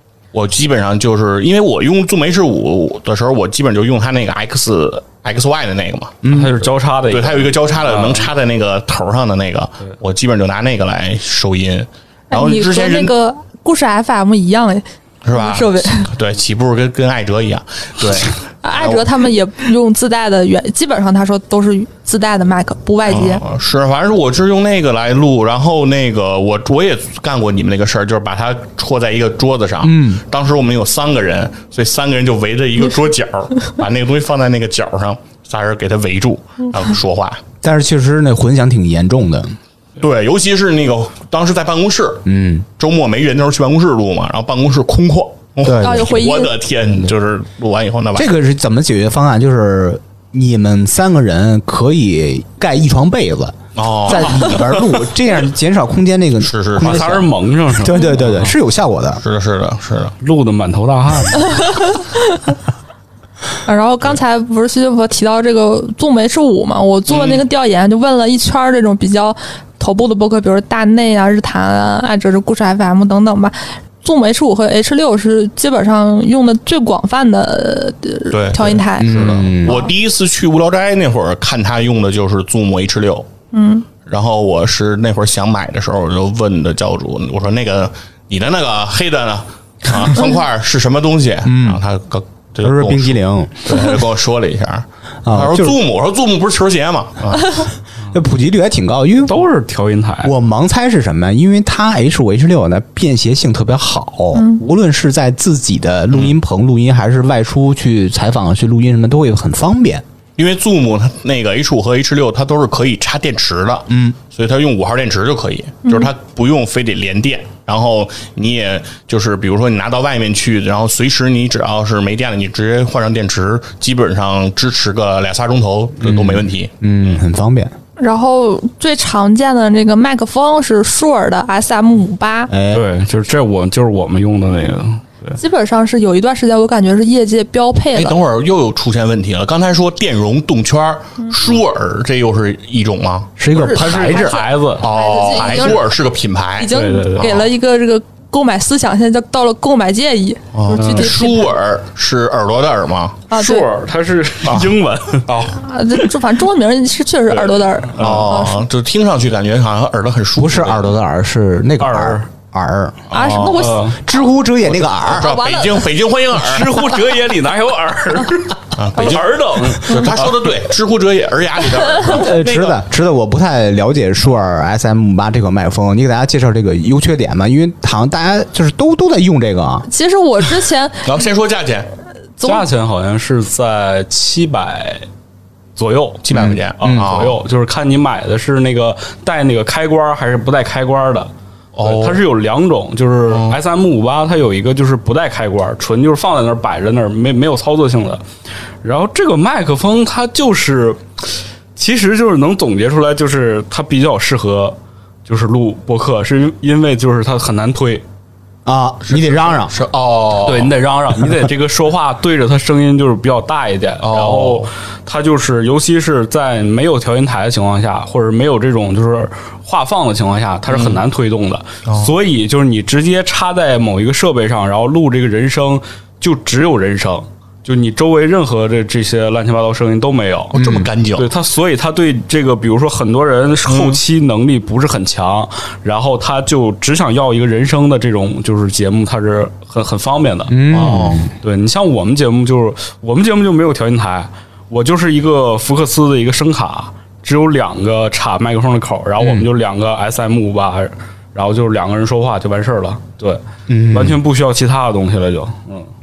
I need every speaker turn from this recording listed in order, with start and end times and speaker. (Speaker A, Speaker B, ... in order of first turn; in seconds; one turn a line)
Speaker A: 0.3-6.2
Speaker B: 6.2-6.5
Speaker C: 6.3-8.3
Speaker A: 7.1-13.1
Speaker D: 12.3-16.1
Speaker A: 15.2-19.1
Speaker D: 18.6-23.4
Speaker A: 23.1-37.4
Speaker B: 29.8-30.2
Speaker B: 37.6-39.6
Speaker A: 40.0-42.3
Speaker B: 42.3-42.7
Speaker A: 42.8-48.3
Speaker B: 45.6-46.2
Speaker D: 45.8-46.5
Speaker B: 48.1-59.2
Speaker A: 53.8-55.0
Speaker A: 56.4-57.2
Speaker C: 56.8-58.5
Speaker A: 59.2-60.1
Speaker C: 60.2-61.8
Speaker D: 61.6-62.5
Speaker D: 63.7-79.9
Speaker A: 67.1-67.4
Speaker A: 78.3-83.3
Speaker B: 79.0-79.9
Speaker D: 83.5-83.9
Speaker A: 84.0-97.7
Speaker B: 91.5-91.8
Speaker B: 92.6-94.0
Speaker B: 95.2-95.8
Speaker B: 98.1-99.4
Speaker C: 99.3-100.3
Speaker B: 100.2-110.0
Speaker D: 104.3-104.6
Speaker A: 110.4-126.7
Speaker B: 113.9-114.2
Speaker D: 115.9-116.1
Speaker C: 126.1-126.4
Speaker B: 126.8-127.7
Speaker D: 128.0-132.5
Speaker B: 132.5-132.8
Speaker C: 132.7-135.4
Speaker D: 135.4-138.2
Speaker A: 137.9-143.3
Speaker B: 143.4-144.4
Speaker D: 143.6-145.8
Speaker C: 143.6-144.9
Speaker A: 144.1-147.5
Speaker D: 146.6-151.5
Speaker C: 146.7-147.2
Speaker A: 150.5-153.2
Speaker C: 150.8-151.1
Speaker D: 153.3-153.7
Speaker C: 153.3-155.3
Speaker A: 154.4-154.7
Speaker A: 155.2-155.6
Speaker D: 155.5-158.6
Speaker C: 157.9-158.4
Speaker A: 158.0-160.9
Speaker B: 160.4-163.0
Speaker C: 161.8-162.3
Speaker A: 163.1-163.8
Speaker D: 163.1-163.9
Speaker C: 163.4-164.0
Speaker B: 163.9-165.4
Speaker A: 164.8-166.8
Speaker D: 165.2-165.9
Speaker C: 166.3-170.3
Speaker A: 168.8-172.8
Speaker B: 172.1-179.9
Speaker D: 179.9-181.1
Speaker A: 181.0-181.9
Speaker D: 182.4-182.7
Speaker C: 182.4-185.1
Speaker C: 185.8-191.3
Speaker A: 186.2-187.4
Speaker B: 186.3-187.1
Speaker A: 191.8-192.2
Speaker C: 191.8-198.2
Speaker A: 193.3-193.6
Speaker C: 198.8-201.0
Speaker C: 201.8-208.0
Speaker B: 208.7-209.7
Speaker A: 209.1-210.8
Speaker C: 210.4-230.6
Speaker A: 214.0-214.7
Speaker A: 220.7-221.0
Speaker A: 221.9-222.1
Speaker B: 230.5-230.9
Speaker A: 230.5-231.3
Speaker C: 231.2-255.9
Speaker A: 233.7-234.0
Speaker B: 240.5-241.3
Speaker A: 240.7-241.3
Speaker B: 253.7-254.2